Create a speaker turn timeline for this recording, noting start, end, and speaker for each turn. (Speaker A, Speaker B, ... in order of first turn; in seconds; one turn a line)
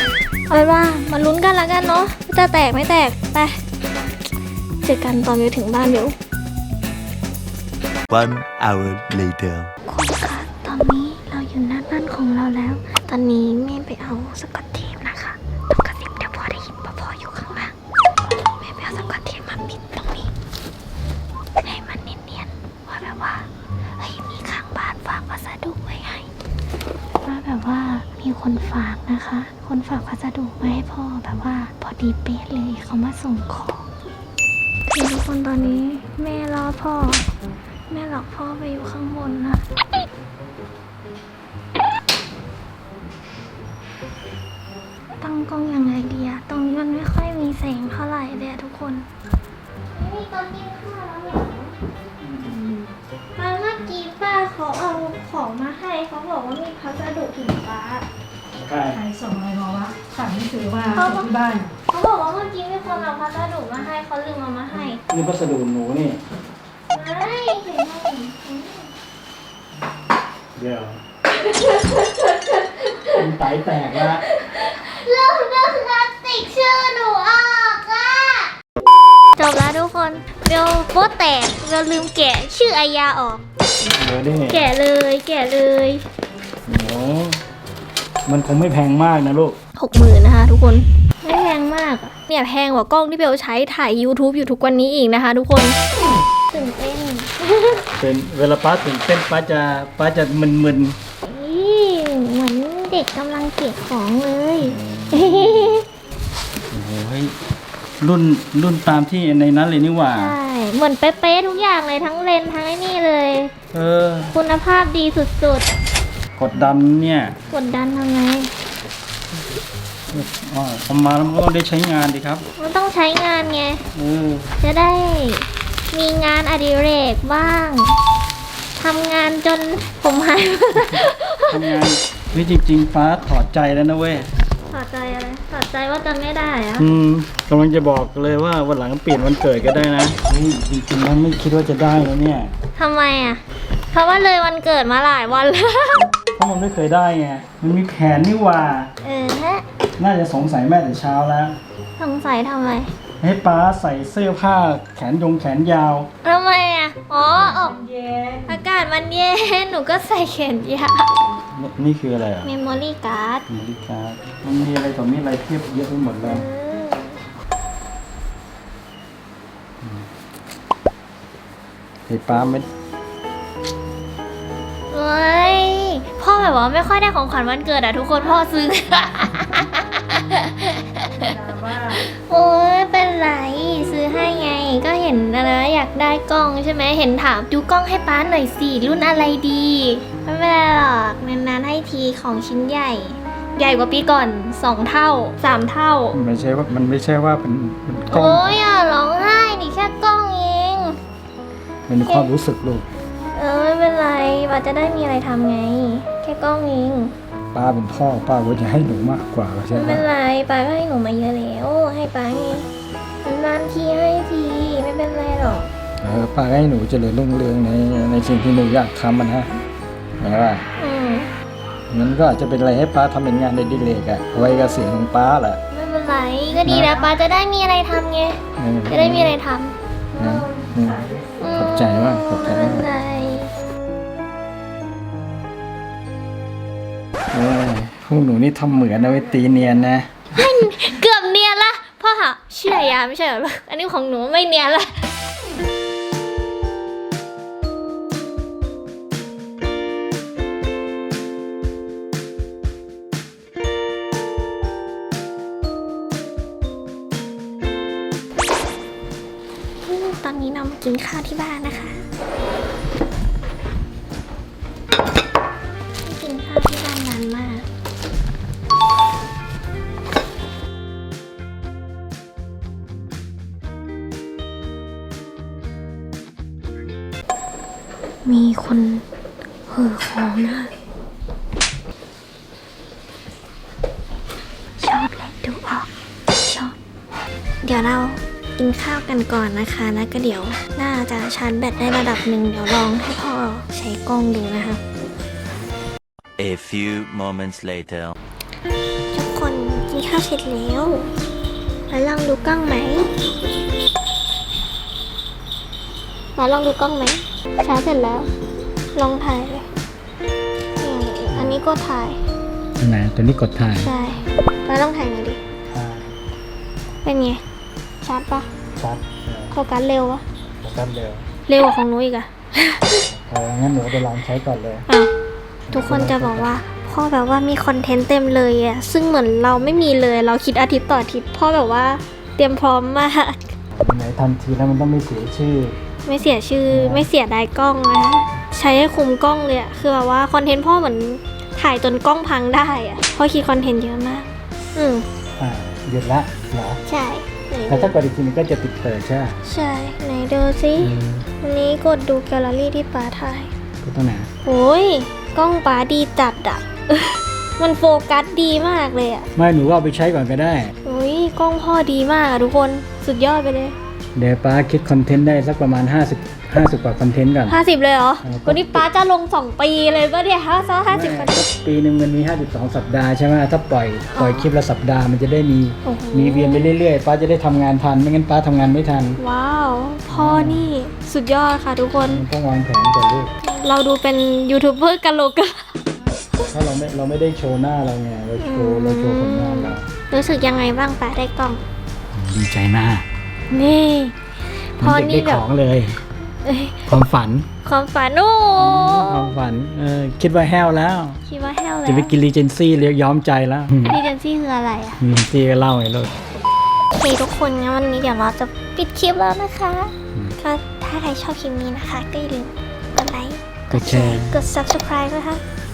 Speaker A: 0.5-3.6
Speaker A: 4.8-6.2
Speaker B: 8.1-9.7
Speaker A: 9.9-20.3
Speaker A: 21.6-26.3
Speaker A: 27.2-33.9
Speaker A: 34.9-37.3
Speaker A: 37.9-39.6
Speaker A: 45.2-49.1
Speaker A: 49.9-51.7
Speaker C: 52.2-52.6
Speaker A: 53.4-58.1
Speaker C: 58.6-59.0
Speaker D: 58.9-61.7
Speaker A: 60.9-61.4
Speaker A: 61.9-65.0
Speaker C: 65.1-66.2
Speaker A: 66.9-68.9
Speaker C: 70.6-71.0
Speaker A: 71.4-73.3
Speaker C: 73.1-74.2
Speaker A: 73.9-78.5
Speaker A: 79.3-83.4
Speaker C: 83.8-84.7
Speaker A: 84.5-86.0
Speaker C: 86.7-87.4
Speaker C: 88.3-89.6
Speaker A: 89.8-95.8
Speaker A: 96.5-97.8
Speaker C: 98.0-101.0
Speaker A: 101.2-105.9
Speaker C: 104.6-105.8
Speaker C: 106.7-107.3
Speaker C: 108.0-110.3
Speaker A: 110.1-113.5
Speaker C: 113.7-114.4
Speaker A: 114.3-115.7
Speaker C: 116.4-117.4
Speaker A: 117.5-118.5
Speaker C: 120.1-122.4
Speaker A: 122.6-123.8
Speaker C: 123.9-124.5
Speaker A: 124.6-128.0
Speaker A: 128.8-131.6
Speaker C: 131.0-134.3
Speaker A: 134.7-136.9
Speaker C: 136.8-142.5
Speaker A: 142.8-146.1
Speaker C: 146.4-148.9
Speaker A: 149.0-149.6
Speaker C: 150.0-151.6
Speaker A: 152.0-152.9
Speaker C: 153.2-156.1
Speaker A: 156.2-161.1
Speaker C: 161.5-162.5
Speaker A: 162.4-163.4
Speaker C: 163.5-166.4
Speaker A: 166.2-167.2
Speaker C: 169.8-170.1
Speaker C: 172.1-172.7
Speaker A: 174.9-196.2
Speaker C: 196.1-198.6
Speaker A: 198.1-201.0
Speaker C: 201.9-202.9
Speaker A: 202.0-202.3
Speaker A: 203.3-207.1
Speaker C: 207.5-210.1
Speaker A: 209.7-212.7
Speaker A: 213.2-215.7
Speaker C: 216.0-219.6
Speaker C: 220.2-220.6
Speaker A: 220.8-221.3
Speaker C: 221.9-225.6
Speaker A: 225.7-229.8
Speaker C: 226.6-227.1
Speaker C: 228.6-229.4
Speaker C: 230.2-232.9
Speaker A: 231.4-233.5
Speaker C: 237.3-240.2
Speaker A: 240.3-245.1
Speaker A: 259.9-262.0
Speaker A: 266.0-267.6
Speaker A: 278.2-279.1
Speaker A: 279.7-280.7
Speaker A: 284.8-286.8
Speaker A: 287.6-294.8
Speaker B: 296.4-298.2
Speaker A: 299.1-301.1
Speaker A: 301.9-303.1
Speaker A: 306.4-308.3
Speaker A: 308.9-309.7
Speaker A: 310.8-312.2
Speaker C: 311.3-311.6
Speaker C: 312.8-313.9
Speaker A: 313.7-315.4
Speaker C: 315.7-316.1
Speaker A: 317.0-317.4
Speaker A: 318.0-318.5
Speaker C: 318.8-319.6
Speaker A: 319.5-320.2
Speaker C: 320.6-321.2
Speaker A: 321.5-323.1
Speaker C: 323.1-324.9
Speaker C: 325.7-326.5
Speaker A: 325.7-333.5
Speaker C: 333.8-335.8
Speaker A: 336.1-345.1
Speaker C: 336.7-337.1
Speaker C: 345.4-346.8
Speaker A: 346.9-348.0
Speaker C: 347.7-349.4
Speaker A: 349.4-353.5
Speaker C: 350.8-351.3
Speaker C: 353.8-354.3
Speaker A: 354.4-359.3
Speaker C: 359.4-360.7
Speaker A: 360.9-363.8
Speaker C: 364.1-367.6
Speaker A: 367.5-371.5
Speaker C: 368.2-368.9
Speaker C: 370.9-379.2
Speaker A: 374.1-374.5
Speaker A: 375.9-376.7
Speaker A: 379.2-382.2
Speaker C: 380.1-380.7
Speaker C: 382.0-383.3
Speaker A: 383.4-385.7
Speaker C: 386.5-389.9
Speaker A: 388.4-391.6
Speaker C: 392.1-393.0
Speaker A: 393.5-394.1
Speaker A: 394.8-395.4
Speaker C: 394.8-396.0
Speaker A: 396.4-396.8
Speaker C: 396.9-397.5
Speaker A: 397.6-399.3
Speaker C: 398.6-401.2
Speaker A: 401.2-402.1
Speaker C: 401.9-404.0
Speaker A: 403.9-405.0
Speaker C: 405.0-406.2
Speaker A: 407.0-415.4
Speaker C: 413.7-414.4